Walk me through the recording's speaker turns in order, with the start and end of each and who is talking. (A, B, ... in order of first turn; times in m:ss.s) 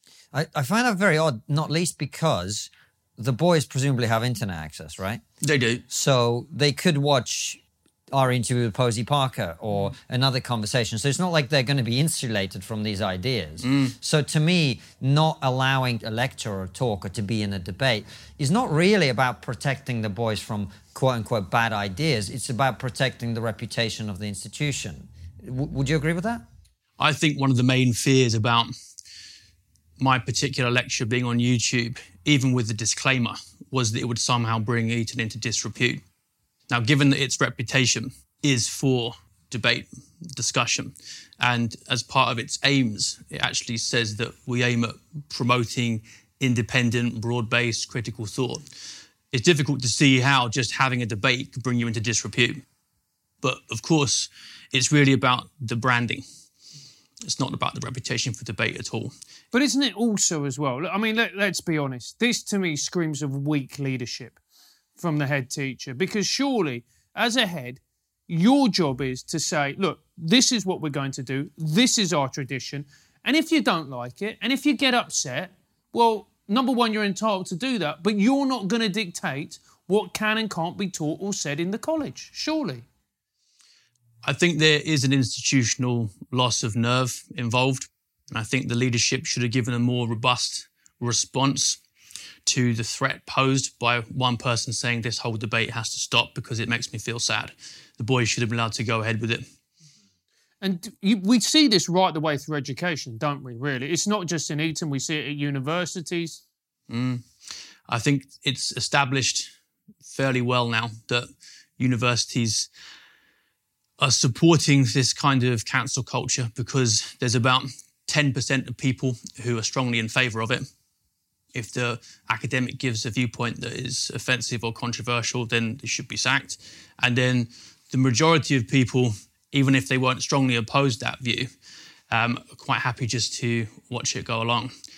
0:00.3-0:05.2 A
0:05.4-0:05.8 B
0:05.9-0:07.6 A
0:08.1-0:26.4 A
0:13.6-0:13.9 B
0:27.0-0:28.7 B
0:30.0-0:36.0 B
0:36.7-0:48.7 B
0:49.3-0:52.6 B
0:53.4-0:56.2 B
0:57.2-0:59.1 B
0:59.5-1:04.4 C
1:05.0-1:22.8 C
1:24.2-1:31.8 B
1:32.4-1:39.4 B
1:40.6-1:46.4 C
1:46.9-1:49.5 B
1:50.1-1:52.7 B
1:54.0-2:00.6 B
2:01.5-2:11.5 B
2:12.1-2:14.7 B